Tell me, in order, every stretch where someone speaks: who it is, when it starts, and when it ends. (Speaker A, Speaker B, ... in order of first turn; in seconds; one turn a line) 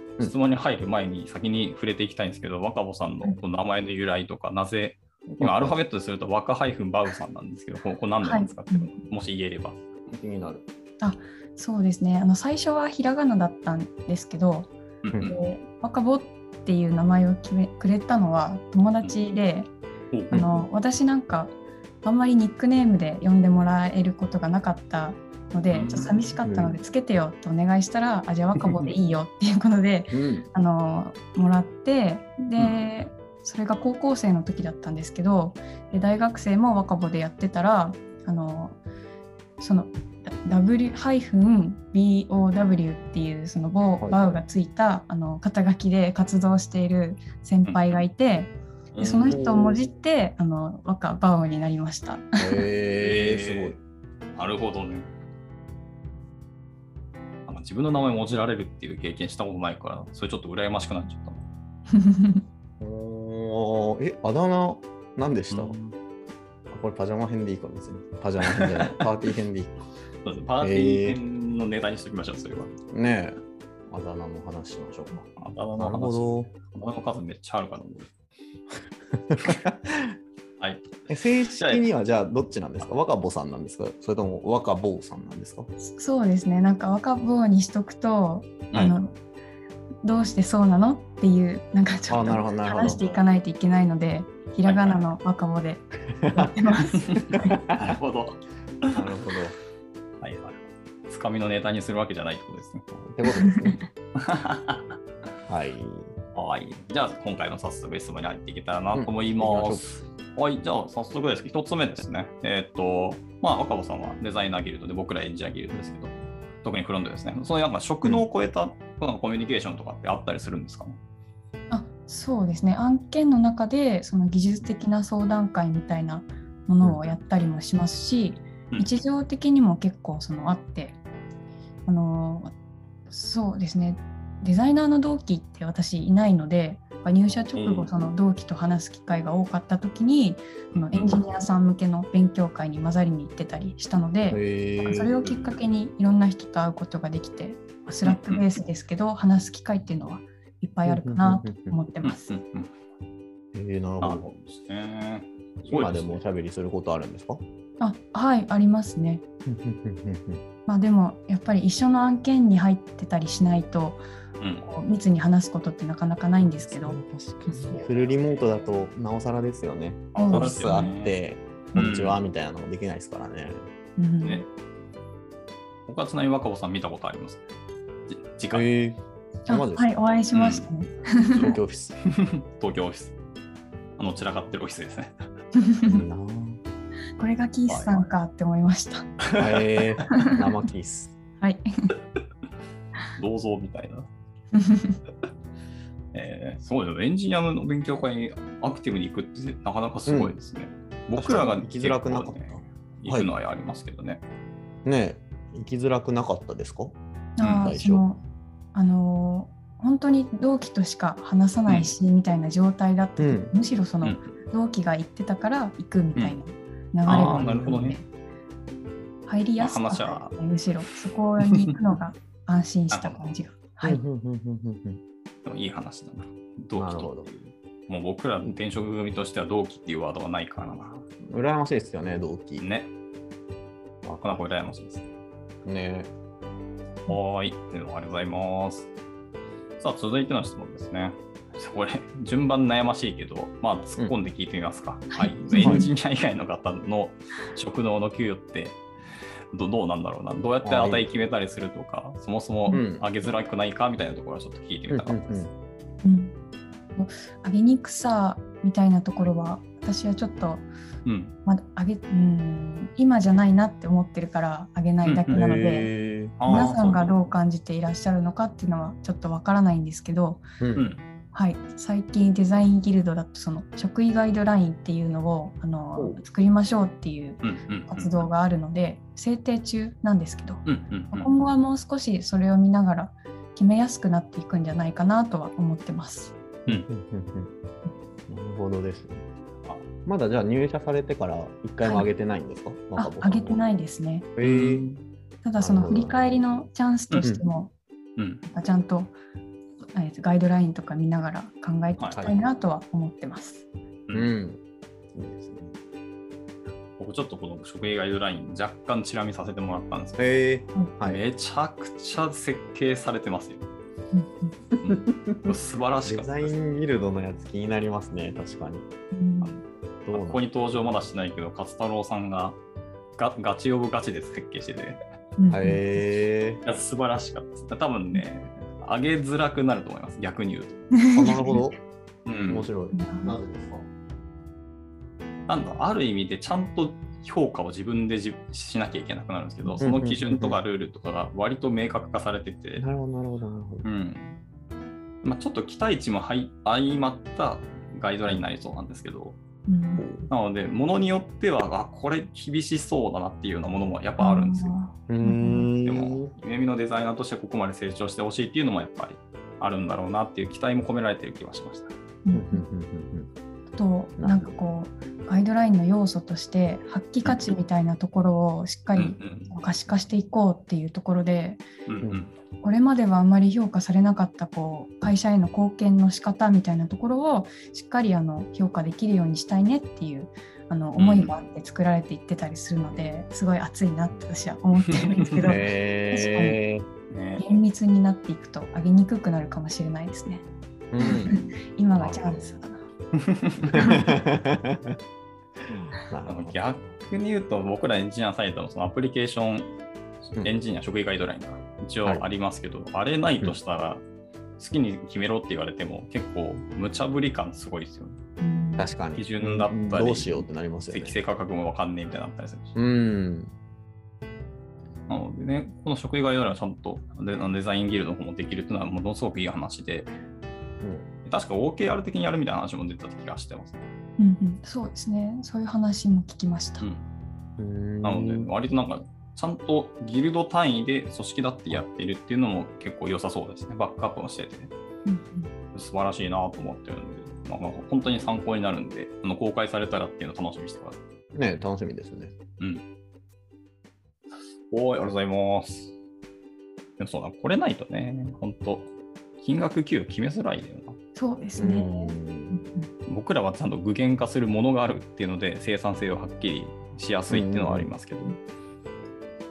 Speaker A: 0.2-9.8
Speaker B: 5.3-5.8
Speaker C: 8.2-8.9
Speaker B: 10.1-10.6
Speaker C: 11.0-14.7
Speaker A: 15.0-15.4
Speaker C: 15.2-19.7
Speaker A: 20.1-20.4
Speaker C: 20.3-38.8
Speaker A: 25.7-26.3
Speaker B: 26.4-26.8
Speaker A: 28.6-28.9
Speaker B: 30.1-30.5
Speaker C: 39.6-52.3
Speaker B: 44.0-44.4
Speaker A: 47.7-48.0
Speaker A: 48.9-49.4
Speaker B: 49.0-49.9
Speaker B: 52.4-53.8
Speaker A: 53.0-53.8
Speaker A: 54.4-55.1
Speaker A: 57.5-61.4
Speaker C: 61.9-62.4
Speaker B: 62.8-65.8
Speaker A: 65.5-66.0
Speaker B: 66.7-69.8
Speaker A: 68.5-68.8
Speaker A: 70.2-72.7
Speaker B: 70.6-71.2
Speaker B: 72.9-73.4
Speaker B: 73.9-76.5
Speaker A: 75.4-78.1
Speaker B: 79.1-80.1
Speaker A: 80.6-80.9
Speaker B: 81.1-85.7
Speaker A: 81.5-81.9
Speaker C: 85.8-89.2
Speaker C: 90.0-97.6
Speaker B: 92.1-93.2
Speaker A: 94.7-95.0
Speaker B: 96.2-96.5
Speaker A: 97.1-99.0
Speaker B: 98.9-99.6
Speaker A: 100.2-102.9
Speaker B: 102.9-103.8
Speaker C: 103.4-103.8
Speaker A: 104.2-105.0
Speaker B: 105.5-106.1
Speaker A: 106.3-121.0
Speaker B: 108.9-109.9
Speaker C: 121.7-131.0
Speaker C: 131.9-132.5
Speaker C: 133.1-152.3
Speaker A: 137.5-137.9
Speaker A: 140.8-141.2
Speaker B: 144.3-145.1
Speaker A: 145.1-145.6
Speaker A: 148.1-148.4
Speaker B: 150.8-151.8
Speaker A: 152.0-152.7
Speaker B: 153.5-154.2
Speaker A: 154.0-156.2
Speaker B: 155.7-157.4
Speaker C: 157.8-159.2
Speaker B: 159.5-160.4
Speaker C: 160.7-164.0
Speaker A: 164.4-164.7
Speaker C: 164.6-167.0
Speaker B: 166.4-173.7
Speaker A: 167.7-168.9
Speaker A: 170.1-171.2
Speaker C: 170.2-170.9
Speaker A: 171.7-172.2
Speaker C: 174.0-174.4
Speaker A: 175.9-177.4
Speaker A: 178.1-178.7
Speaker B: 178.5-179.9
Speaker C: 179.5-181.6
Speaker A: 180.3-180.7
Speaker B: 181.4-182.0
Speaker A: 182.1-183.2
Speaker A: 184.0-185.2
Speaker C: 185.6-185.9
Speaker B: 185.8-186.6
Speaker C: 187.2-189.1
Speaker A: 187.7-188.0
Speaker B: 189.4-191.2
Speaker C: 191.4-191.9
Speaker A: 193.2-194.1
Speaker C: 194.5-195.0
Speaker A: 196.1-204.2
Speaker B: 200.1-200.4
Speaker B: 201.2-203.3
Speaker B: 204.8-207.0
Speaker C: 207.4-218.1
Speaker A: 207.4-207.7
Speaker B: 207.6-208.0
Speaker A: 211.7-211.9
Speaker B: 213.2-213.5
Speaker A: 214.0-214.3
Speaker A: 217.1-218.0
Speaker B: 217.1-217.8
Speaker C: 219.3-224.0
Speaker A: 219.6-220.4
Speaker A: 221.4-221.7
Speaker A: 222.9-223.2
Speaker B: 223.8-225.0
Speaker A: 225.4-231.1
Speaker B: 226.8-227.3
Speaker B: 231.3-232.6
Speaker A: 232.6-232.9
Speaker B: 234.0-234.4
Speaker A: 234.2-235.1
Speaker B: 235.7-236.1
Speaker A: 237.1-238.9
Speaker A: 239.8-248.8
Speaker C: 245.1-245.9
Speaker B: 245.6-245.9
Speaker A: 249.5-255.4
Speaker B: 250.6-251.1
Speaker B: 252.7-253.1
Speaker B: 254.9-255.5
Speaker C: 256.0-256.3
Speaker C: 256.9-260.7
Speaker A: 261.1-261.3
Speaker C: 261.4-265.9
Speaker A: 265.0-265.4
Speaker B: 265.3-266.7
Speaker A: 266.4-267.2
Speaker C: 266.5-270.4
Speaker B: 270.6-270.9
Speaker A: 270.8-271.0
Speaker C: 271.3-286.4
Speaker A: 277.4-278.2
Speaker A: 280.7-281.3
Speaker B: 286.7-287.5
Speaker B: 288.3-289.3
Speaker B: 290.1-293.6
Speaker C: 291.8-292.1
Speaker C: 293.0-294.3
Speaker B: 294.4-294.9
Speaker A: 294.4-295.0
Speaker C: 295.4-297.7
Speaker B: 295.6-296.6
Speaker A: 298.2-298.4
Speaker C: 298.5-299.1
Speaker C: 299.9-303.7
Speaker A: 302.0-302.3
Speaker B: 304.1-304.6
Speaker B: 305.1-305.8
Speaker A: 307.0-310.4
Speaker B: 310.2-311.2
Speaker A: 311.0-313.6
Speaker C: 314.1-314.6
Speaker B: 314.8-318.9
Speaker A: 314.8-316.6
Speaker C: 319.1-319.6
Speaker B: 320.1-320.4
Speaker A: 320.1-322.6
Speaker A: 323.2-325.0
Speaker C: 325.4-326.0
Speaker B: 325.5-326.6
Speaker A: 326.6-330.8
Speaker C: 330.9-331.6
Speaker B: 331.1-331.8
Speaker A: 332.3-332.7
Speaker B: 332.5-333.9
Speaker C: 332.9-333.4
Speaker A: 335.5-342.9
Speaker B: 339.8-340.6
Speaker B: 342.8-343.9
Speaker A: 343.8-344.4
Speaker A: 345.2-349.4
Speaker C: 349.7-350.1
Speaker A: 350.0-354.8
Speaker C: 354.2-355.7
Speaker B: 355.1-356.3
Speaker A: 355.8-361.9
Speaker C: 362.2-362.6
Speaker B: 362.3-363.3
Speaker C: 363.8-371.6
Speaker B: 364.2-364.5
Speaker A: 368.9-369.5
Speaker A: 371.9-372.4
Speaker C: 372.6-386.6
Speaker A: 381.0-381.3
Speaker B: 385.4-386.9
Speaker A: 387.1-387.4
Speaker C: 387.4-390.5
Speaker B: 390.9-391.4
Speaker C: 391.0-392.9
Speaker B: 391.9-392.6
Speaker A: 393.4-393.8
Speaker B: 393.7-395.0
Speaker C: 393.8-394.1
Speaker B: 395.7-396.6
Speaker A: 396.3-399.7
Speaker A: 400.3-404.0
Speaker A: 404.6-408.2
Speaker C: 408.4-408.9
Speaker B: 408.8-411.2
Speaker A: 409.1-412.8
Speaker B: 412.8-413.5
Speaker A: 415.1-420.1
Speaker B: 420.8-421.1
Speaker A: 421.3-423.9
Speaker C: 424.2-426.9
Speaker A: 426.8-427.1
Speaker B: 427.6-428.5
Speaker A: 428.0-434.7
Speaker C: 435.1-435.5
Speaker A: 435.7-441.0
Speaker B: 441.3-442.3
Speaker A: 444.7-445.9
Speaker A: 447.0-451.0
Speaker C: 451.1-452.9
Speaker B: 451.6-452.6
Speaker A: 453.1-458.4
Speaker B: 457.3-457.9